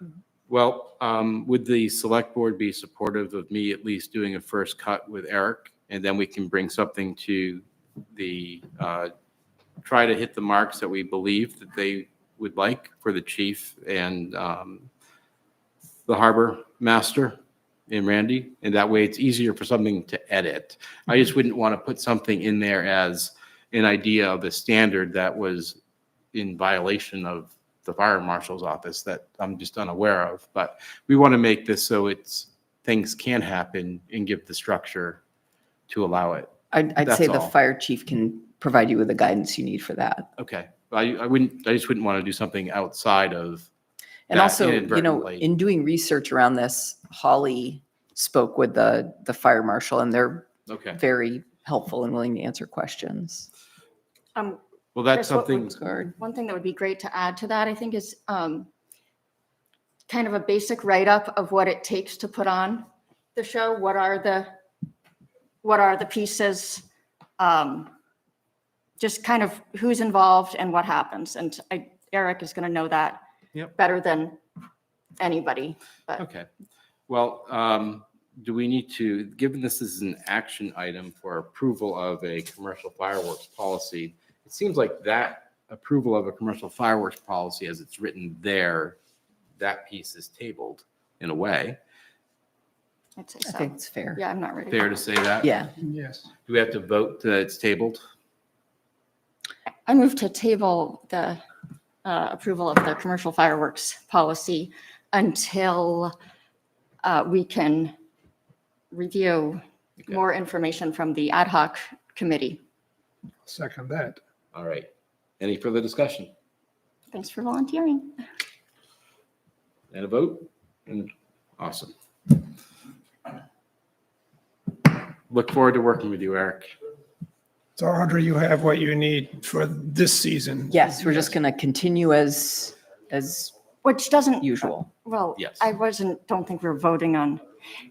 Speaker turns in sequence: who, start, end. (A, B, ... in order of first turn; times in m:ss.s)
0:00.5-0:09.1 A
0:09.8-0:14.9 A
0:16.1-0:17.4 A
0:17.9-0:25.8 A
0:26.3-0:35.2 A
0:35.9-0:37.5 A
0:36.7-0:40.3 B
0:40.4-0:43.7 A
0:44.3-0:53.5 B
0:44.3-0:45.4 A
0:50.7-0:51.0 A
0:54.3-0:54.6 C
0:54.9-0:55.8 A
0:55.1-0:58.7 C
0:55.8-0:56.1 B
1:00.1-1:04.5 C
1:05.6-1:06.8 C
1:07.4-1:07.9 C
1:09.0-1:13.2 C
1:13.8-1:14.4 C
1:15.2-1:16.2 C
1:16.2-1:16.5 A
1:17.1-1:29.0 A
1:29.6-1:31.8 A
1:33.2-1:34.9 C
1:33.4-1:34.2 B
1:34.7-1:35.5 A
1:35.4-1:35.7 B
1:35.8-1:36.3 D
1:36.4-1:38.0 A
1:39.8-1:41.4 C
1:42.0-1:46.1 C
1:47.0-1:47.9 C
1:48.9-1:52.6 C
1:53.4-1:54.2 D
1:54.5-1:54.9 A
1:55.4-1:56.3 A
1:57.1-1:58.2 C
1:59.9-2:01.9 A
2:05.3-2:06.7 A
2:07.8-2:11.1 D
2:10.7-2:13.6 B
2:13.8-2:14.5 C
2:14.4-2:14.9 B
2:15.0-2:17.4 C
2:15.4-2:15.7 A